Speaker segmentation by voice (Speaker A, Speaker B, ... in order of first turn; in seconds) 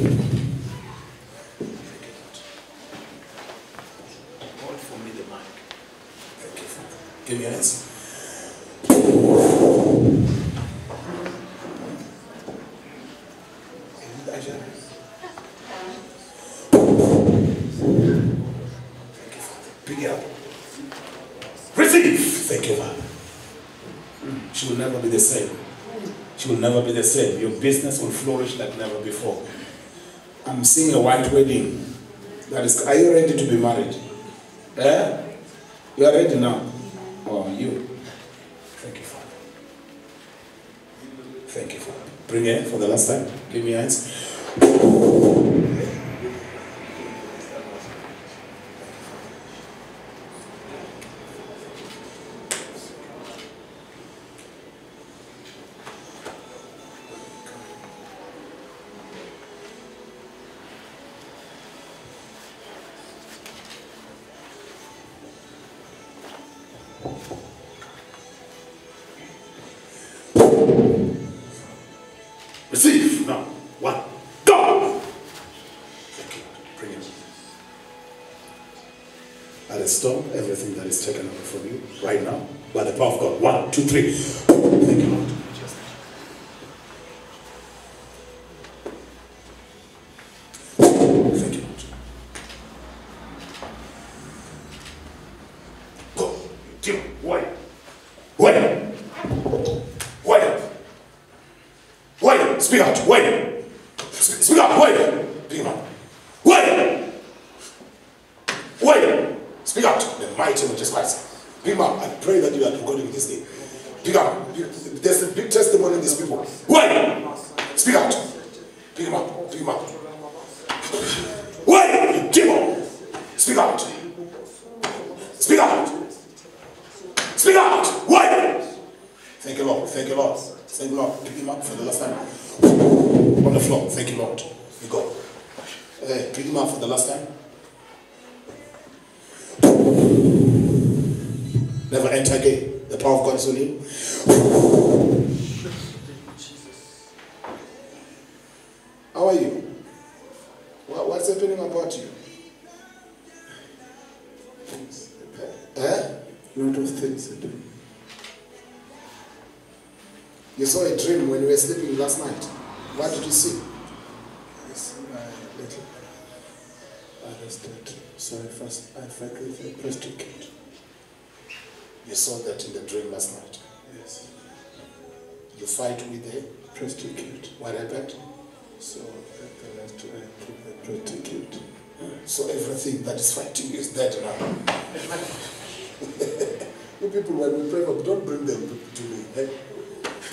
Speaker A: 1.8-2.4, 4.5-5.7, 6.4-8.4, 14.0-14.8, 19.1-20.3, 21.7-23.1, 24.2-25.6, 26.3-29.5, 30.4-31.9, 32.4-34.0, 34.7-35.2, 35.9-37.9, 38.7-39.4, 41.4-48.2, 48.8-49.2, 57.1-57.5, 72.7-75.0, 76.1-77.1, 79.7-86.0, 91.1-91.9, 96.1-97.5, 98.3-98.9, 100.2-100.7, 102.2-105.8, 106.4-107.1, 108.8-118.3, 118.9-120.0, 120.8-124.1, 125.2-126.1, 127.2-128.6, 129.4-135.2, 135.9-137.3, 141.9-144.8, 149.1-149.7, 150.8-152.2, 155.5-156.1, 160.5-163.7, 172.0-173.6, 175.5-176.5, 177.6-178.2, 182.1-189.6
Speaker B: 154.7-155.5, 156.5-157.6, 164.6-166.0, 167.2-170.5, 173.9-174.3, 176.7-177.5, 178.8-181.6